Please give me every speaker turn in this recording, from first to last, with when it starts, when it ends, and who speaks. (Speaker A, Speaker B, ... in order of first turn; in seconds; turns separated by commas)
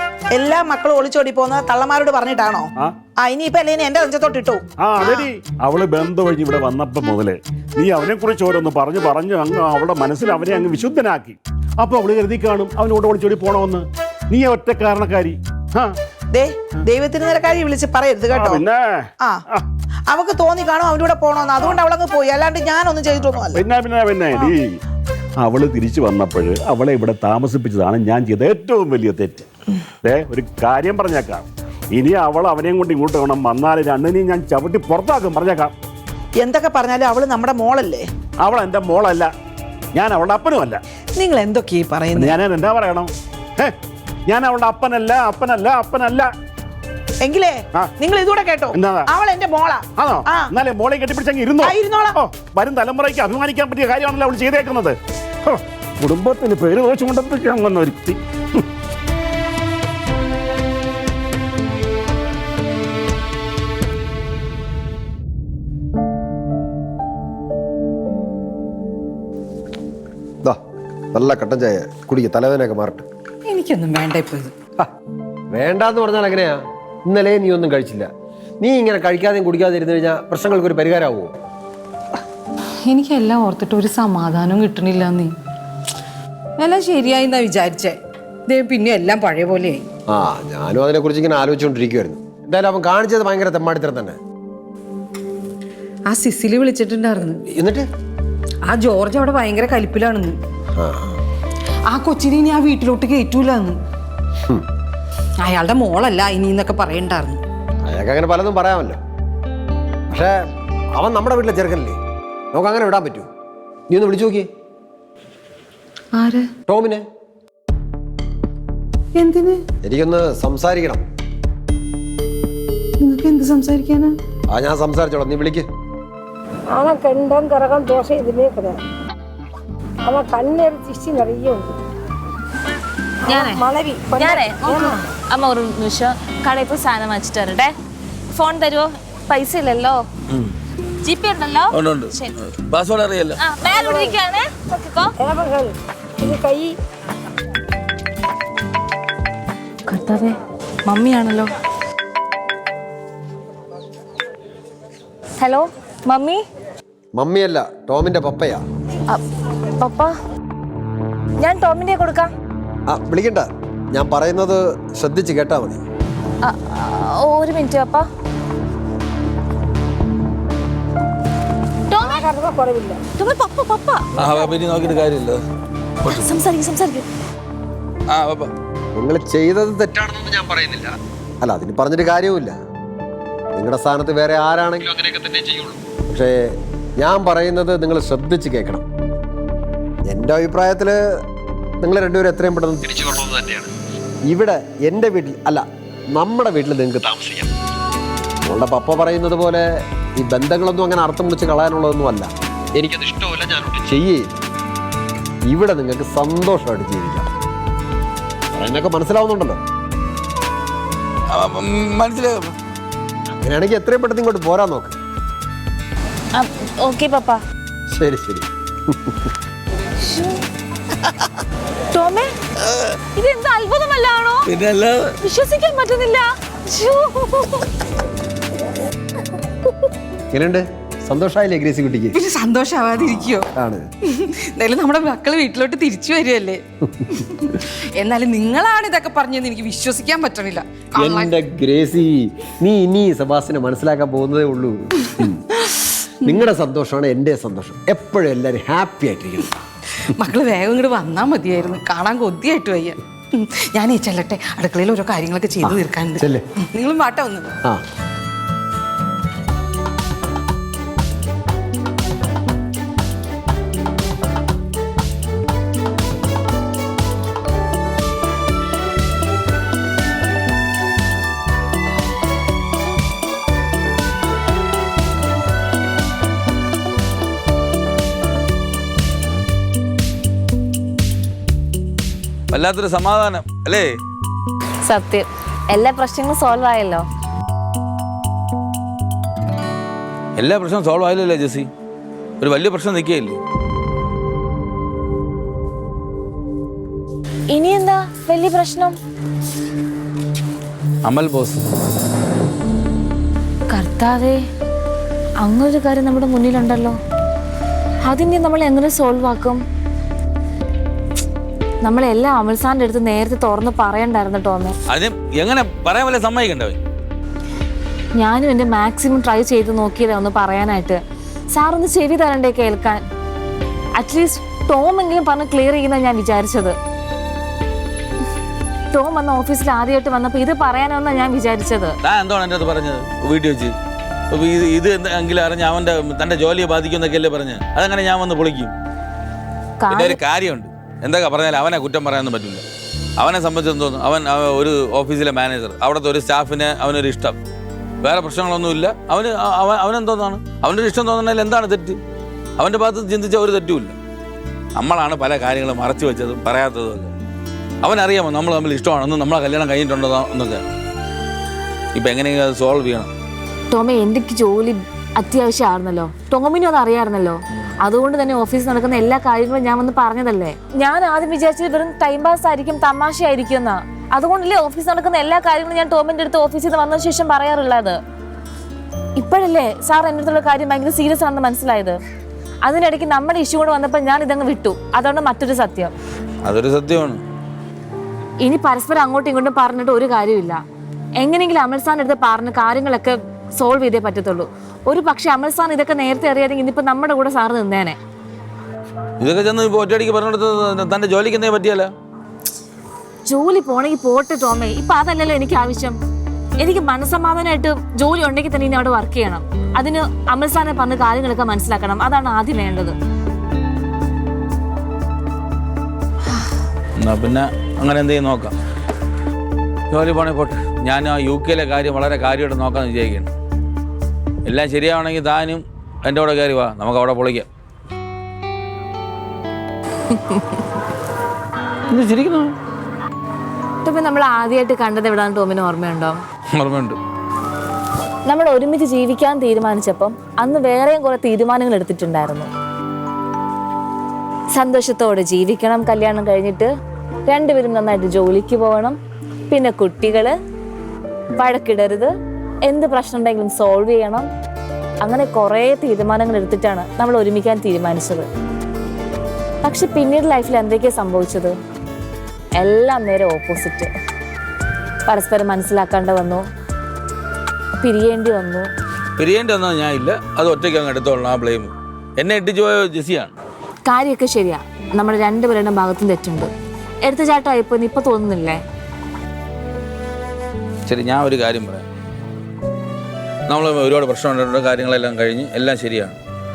Speaker A: 0.3-5.3, Speaker B: 4.8-15.9, Speaker A: 16.3-18.6, Speaker B: 18.3-19.7, Speaker A: 20.1-23.6, Speaker B: 23.5-24.8, Speaker B: 25.4-29.5, Speaker B: 30.0-35.7, Speaker A: 36.4-38.1, Speaker B: 38.4-39.3, Speaker B: 39.9-40.8, Speaker A: 41.2-42.4, Speaker B: 42.1-43.8, Speaker B: 44.3-46.3, Speaker A: 47.2-50.5, Speaker B: 48.7-49.1, Speaker B: 50.0-58.7, Speaker A: 51.6-52.2, Speaker C: 71.1-73.0, Speaker D: 73.5-74.5, Speaker C: 75.5-78.1, Speaker C: 78.6-81.3, Speaker D: 82.9-85.3, Speaker D: 86.6-89.8, Speaker C: 90.1-94.2, Speaker D: 96.1-97.4, Speaker C: 97.5-97.9, Speaker D: 98.7-100.4, Speaker C: 100.8-101.2, Speaker D: 101.9-103.8, Speaker D: 105.4-107.4, Speaker C: 107.8-109.0, Speaker C: 110.1-110.4, Speaker C: 111.0-112.0, Speaker C: 112.5-113.3, Speaker C: 113.9-114.5, Speaker D: 116.1-116.5, Speaker C: 116.7-117.0, Speaker D: 119.2-119.6, Speaker C: 119.8-121.0, Speaker D: 123.0-124.1, Speaker C: 124.5-125.7, Speaker E: 126.7-128.8, Speaker E: 130.0-131.8, Speaker F: 133.2-133.6, Speaker E: 133.2-135.0, Speaker F: 134.2-137.7, Speaker F: 138.3-140.0, Speaker F: 141.0-142.3, Speaker G: 141.7-143.4, Speaker F: 143.4-145.2, Speaker E: 143.7-144.2, Speaker E: 145.2-146.8, Speaker F: 149.9-150.4, Speaker D: 150.9-151.5, Speaker F: 155.4-156.4, Speaker C: 157.2-158.6, Speaker F: 159.8-160.1, Speaker F: 161.4-162.3, Speaker C: 162.9-165.8, Speaker F: 166.4-168.1, Speaker F: 171.9-172.3, Speaker E: 172.0-173.0, Speaker F: 173.2-174.6, Speaker G: 174.2-175.4, Speaker F: 176.0-177.1, Speaker G: 178.1-178.5, Speaker C: 178.9-182.6, Speaker C: 183.6-188.8, Speaker C: 190.1-191.2, Speaker C: 191.8-193.7, Speaker C: 194.3-197.5, Speaker C: 198.4-204.4, Speaker C: 205.5-207.3, Speaker C: 208.6-209.6, Speaker G: 211.3-212.5, Speaker C: 213.3-214.9, Speaker F: 216.3-217.4, Speaker C: 217.9-219.3, Speaker F: 220.0-220.4, Speaker F: 221.9-222.3, Speaker F: 223.2-224.5, Speaker G: 224.5-225.2, Speaker F: 225.2-227.7, Speaker C: 230.3-232.2, Speaker D: 232.1-233.5, Speaker C: 233.5-233.9, Speaker D: 234.1-236.6, Speaker D: 237.1-241.4, Speaker C: 241.0-245.4, Speaker D: 245.2-246.4, Speaker C: 246.2-249.5, Speaker D: 250.1-257.6, Speaker C: 255.6-256.4, Speaker G: 282.5-284.0, Speaker F: 284.9-287.1, Speaker G: 290.4-291.7, Speaker G: 292.4-293.4, Speaker F: 297.5-299.0, Speaker G: 301.1-301.6, Speaker F: 303.7-304.4, Speaker F: 305.4-307.0, Speaker F: 308.1-309.6, Speaker F: 311.8-314.8, Speaker G: 314.9-316.8, Speaker F: 318.2-321.0, Speaker F: 321.5-323.0, Speaker F: 324.0-326.8, Speaker F: 328.9-332.0, Speaker G: 332.0-333.8, Speaker G: 334.3-338.7, Speaker F: 339.8-340.2, Speaker G: 339.9-342.6, Speaker G: 343.2-347.4, Speaker G: 348.0-352.0, Speaker G: 352.6-353.9, Speaker G: 354.8-357.1, Speaker G: 357.8-360.6, Speaker G: 361.9-363.1, Speaker F: 363.7-378.0, Speaker F: 379.2-382.0, Speaker F: 382.6-385.9, Speaker G: 386.4-387.2, Speaker F: 388.4-390.6, Speaker F: 391.2-398.0, Speaker G: 399.2-401.9, Speaker F: 403.3-406.0, Speaker F: 406.6-413.0, Speaker G: 417.0-418.6, Speaker G: 419.9-423.3, Speaker G: 424.5-427.5, Speaker F: 430.1-430.6, Speaker G: 431.9-432.5, Speaker F: 433.8-436.2, Speaker G: 436.5-437.0, Speaker F: 438.3-442.5, Speaker F: 444.5-446.7, Speaker F: 447.3-449.0, Speaker F: 449.5-450.4, Speaker F: 451.4-452.1, Speaker F: 452.7-454.3, Speaker F: 455.0-458.3, Speaker F: 459.6-461.6, Speaker F: 462.6-463.9, Speaker F: 465.1-466.4, Speaker F: 467.8-468.7, Speaker G: 469.2-473.3, Speaker F: 473.9-476.5, Speaker F: 477.1-478.6, Speaker G: 480.9-481.9, Speaker G: 483.5-486.1